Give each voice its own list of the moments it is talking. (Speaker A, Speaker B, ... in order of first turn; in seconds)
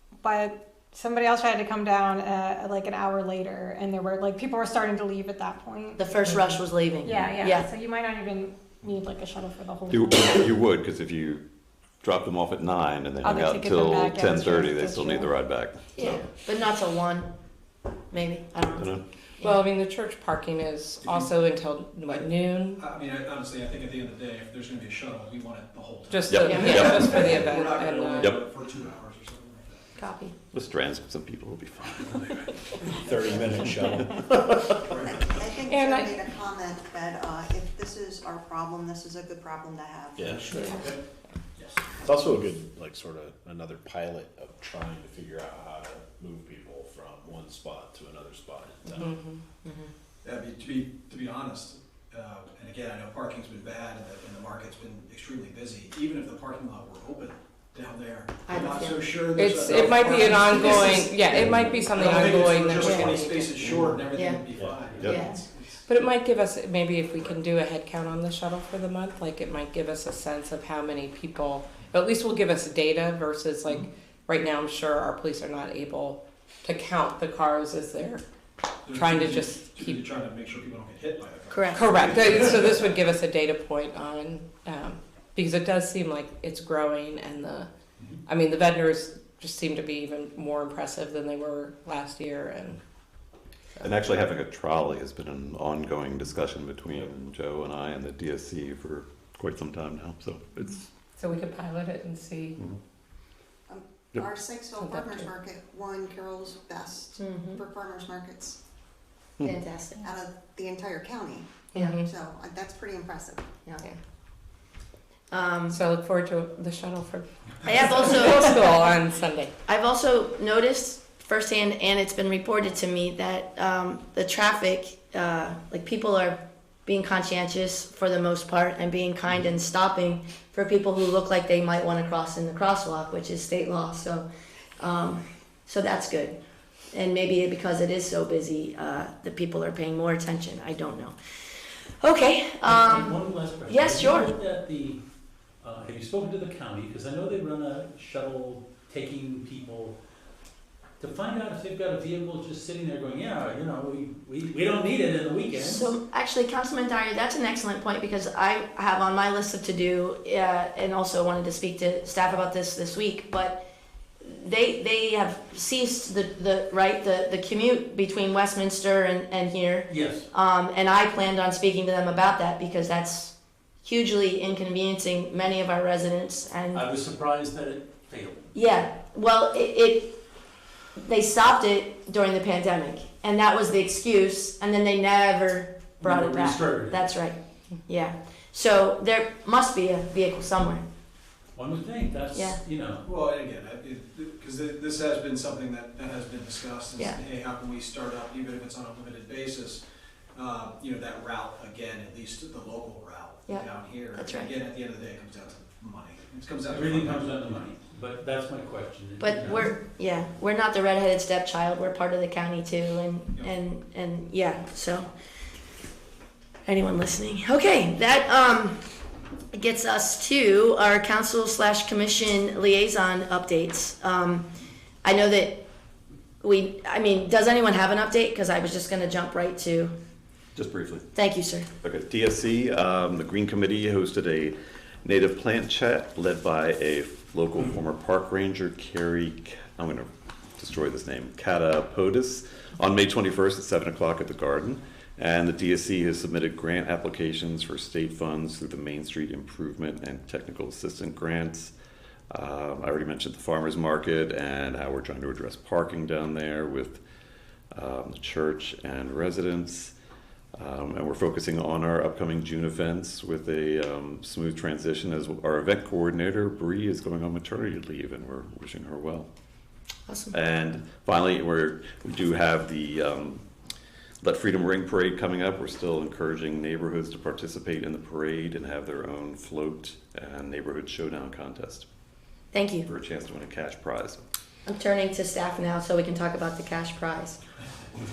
Speaker A: 0.2-6.2, 7.0-10.5, 13.2-15.3
Speaker B: 6.0-7.7, 15.9-17.3, 18.1-19.7, 30.0-30.3, 49.6-49.9, 58.5-59.1, 64.1-64.5, 65.0-65.4, 81.5-82.1, 107.2-107.6, 109.4-110.0, 115.3-115.8, 117.6-118.7, 119.7-134.3, 134.8-136.4, 136.9-141.2, 142.0-144.4, 155.5-163.7, 164.2-176.9, 178.5-180.2, 181.0-190.8, 192.3-192.6, 203.5-204.6, 209.2-215.1, 216.7-218.8, 219.5-224.5, 225.0-225.7, 226.4-229.9, 231.1-231.7, 270.1-270.4, 282.5-282.9, 284.6-287.4
Speaker C: 9.9-11.4, 12.0-16.3, 18.7-19.0, 26.3-27.1, 30.5-32.6, 93.8-100.9, 230.5-231.1, 231.8-251.7, 252.3-257.0, 257.7-259.9, 260.6-269.3, 270.3-273.4, 274.2-281.9, 282.8-284.2
Speaker D: 19.4-22.8, 26.1-28.4, 35.6-36.2, 48.9-49.4, 59.3-63.6, 65.8-78.2, 78.9-80.0, 81.7-87.7, 88.2-92.8, 101.2-102.6, 104.8-105.3, 111.7-112.1, 115.7-119.5
Speaker E: 21.0-21.3, 22.1-30.0, 41.6-41.8, 50.2-66.1, 78.8-82.9, 193.0-199.8, 200.3-207.6
Speaker F: 32.9-35.0, 40.2-41.0, 42.0-49.1, 61.3-61.8, 63.6-64.0, 64.5-65.0
Speaker G: 35.0-40.9, 103.7-108.6, 110.0-113.6
Speaker H: 142.6-145.0, 145.6-150.0, 151.0-155.9, 169.9-170.3, 176.7-178.5, 186.0-187.1, 191.6-193.1, 206.7-209.8